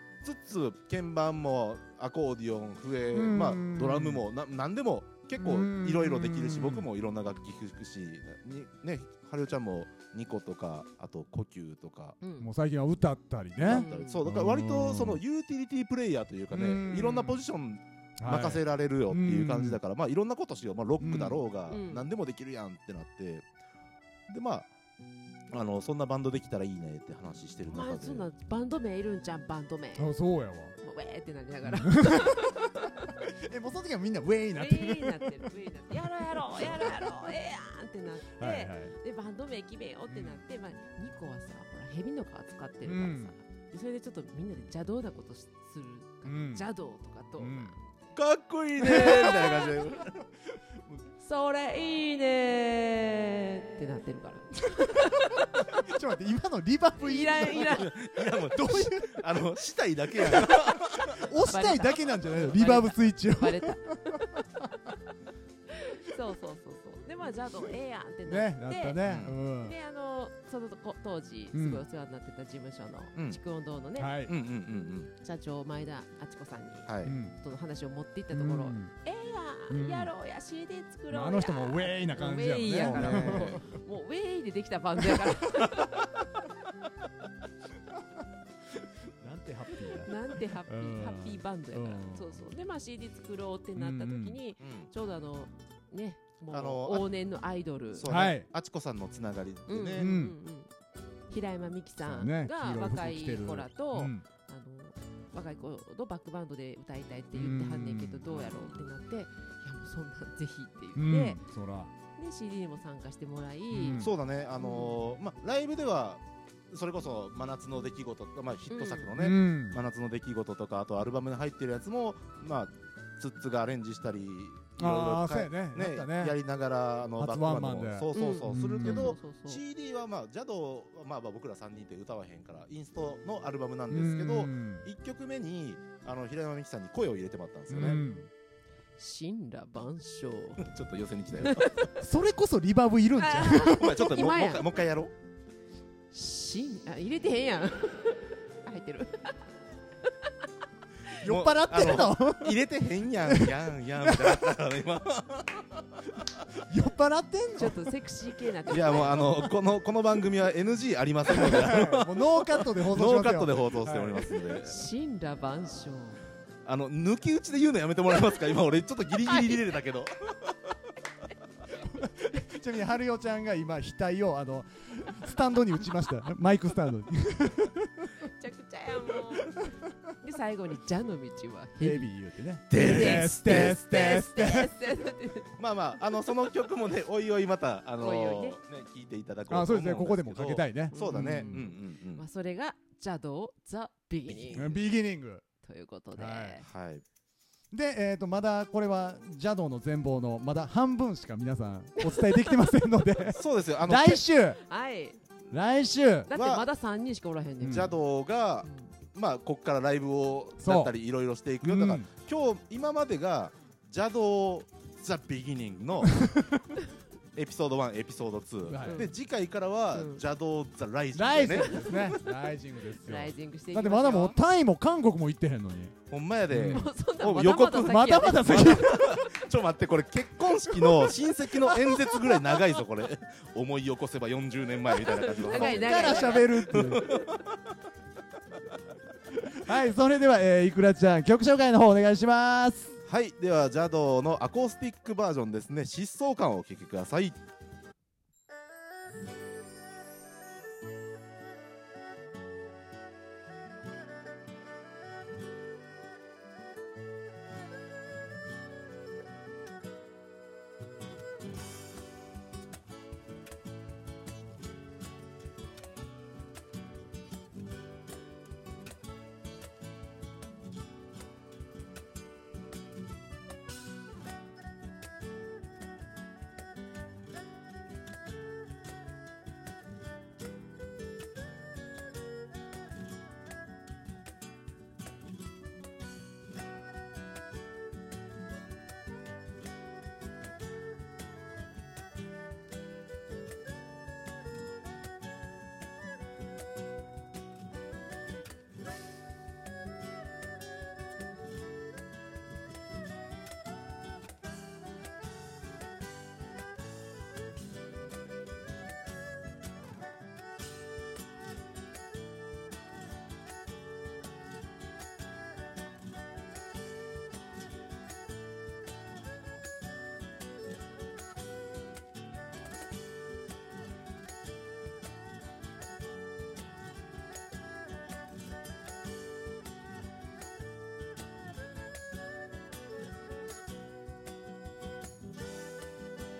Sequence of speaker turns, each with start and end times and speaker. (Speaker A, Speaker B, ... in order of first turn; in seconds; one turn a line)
Speaker A: 0.2-12.2
Speaker B: 3.1-4.2
Speaker B: 5.4-6.9
Speaker C: 12.2-12.5
Speaker B: 12.4-15.2
Speaker A: 13.6-23.4
Speaker C: 13.7-14.2
Speaker B: 16.5-17.4
Speaker B: 18.2-19.8
Speaker B: 21.0-21.5
Speaker C: 21.7-22.1
Speaker A: 24.3-24.7
Speaker A: 25.5-28.3
Speaker C: 27.7-30.1
Speaker B: 29.9-30.7
Speaker C: 30.8-33.1
Speaker B: 31.6-32.5
Speaker B: 33.4-35.5
Speaker C: 34.5-48.1
Speaker B: 36.5-37.0
Speaker B: 38.3-38.9
Speaker B: 40.1-40.4
Speaker B: 42.8-43.3
Speaker B: 46.2-46.7
Speaker B: 47.4-47.7
Speaker A: 48.1-50.1
Speaker C: 48.8-49.6
Speaker B: 48.8-50.2
Speaker C: 51.2-55.8
Speaker B: 55.8-57.8
Speaker C: 57.0-57.9
Speaker A: 57.5-61.0
Speaker B: 58.5-59.2
Speaker B: 60.2-64.9
Speaker C: 61.5-63.8
Speaker C: 65.7-74.1
Speaker B: 68.3-69.8
Speaker A: 69.0-69.4
Speaker B: 71.5-71.8
Speaker B: 74.0-74.3
Speaker A: 74.3-75.1
Speaker C: 75.2-86.1
Speaker A: 76.9-77.2
Speaker B: 77.0-77.3
Speaker B: 78.3-78.9
Speaker B: 79.7-80.1
Speaker B: 81.1-83.8
Speaker A: 82.7-83.6
Speaker B: 85.0-86.2
Speaker B: 89.2-90.1
Speaker C: 90.0-98.1
Speaker B: 90.7-92.4
Speaker B: 93.8-94.4
Speaker A: 94.6-94.9
Speaker A: 96.5-97.1
Speaker A: 97.9-100.1
Speaker B: 98.0-98.5
Speaker C: 99.7-100.7
Speaker B: 100.0-100.3
Speaker C: 101.3-111.4
Speaker B: 102.0-104.2
Speaker B: 107.3-108.2
Speaker A: 108.3-108.7
Speaker B: 111.0-111.9
Speaker C: 112.2-114.0
Speaker B: 113.7-114.1
Speaker A: 114.0-138.0
Speaker C: 114.6-115.0
Speaker C: 118.7-119.1
Speaker B: 119.2-119.8
Speaker B: 124.8-126.3
Speaker B: 127.2-129.2
Speaker C: 128.1-129.6
Speaker B: 133.9-134.8
Speaker B: 137.7-138.3
Speaker C: 137.8-138.2
Speaker C: 139.0-140.6
Speaker A: 140.6-141.9
Speaker C: 141.4-141.9
Speaker B: 142.0-144.0
Speaker C: 143.2-144.7
Speaker A: 143.6-145.1
Speaker C: 146.1-149.3
Speaker B: 151.2-152.7
Speaker A: 151.2-156.3
Speaker B: 153.2-154.5
Speaker B: 156.7-157.8
Speaker C: 157.6-159.3
Speaker A: 158.7-164.8
Speaker B: 161.3-164.3
Speaker C: 164.6-166.2
Speaker A: 166.7-170.5
Speaker B: 171.8-178.1
Speaker C: 178.2-179.6
Speaker C: 180.2-182.1
Speaker B: 181.8-184.7
Speaker A: 182.7-184.2
Speaker C: 182.7-185.6
Speaker A: 185.6-192.2
Speaker C: 188.0-188.6
Speaker B: 189.5-191.6
Speaker C: 190.9-194.8
Speaker A: 194.3-194.8
Speaker B: 194.5-195.4
Speaker C: 195.6-196.6
Speaker B: 196.1-196.6
Speaker A: 196.6-197.0
Speaker B: 197.7-204.6
Speaker C: 202.0-202.6
Speaker A: 203.3-204.2
Speaker C: 204.5-205.2
Speaker B: 205.5-206.3
Speaker C: 206.3-207.9
Speaker A: 206.3-206.7
Speaker B: 207.6-207.9
Speaker A: 207.6-216.1
Speaker C: 208.6-208.9
Speaker B: 210.6-210.9
Speaker B: 211.6-212.1
Speaker B: 216.0-216.6
Speaker A: 217.3-222.1
Speaker B: 218.7-219.1
Speaker C: 218.8-219.1
Speaker C: 219.9-220.2
Speaker B: 221.1-225.9
Speaker C: 221.6-222.0
Speaker C: 223.0-224.4
Speaker A: 226.1-237.5
Speaker B: 226.5-226.9
Speaker C: 226.6-228.9
Speaker B: 227.8-229.4
Speaker B: 230.8-231.1
Speaker B: 231.7-232.2
Speaker C: 235.2-236.5
Speaker B: 235.4-237.1
Speaker B: 239.6-243.0
Speaker A: 243.1-247.4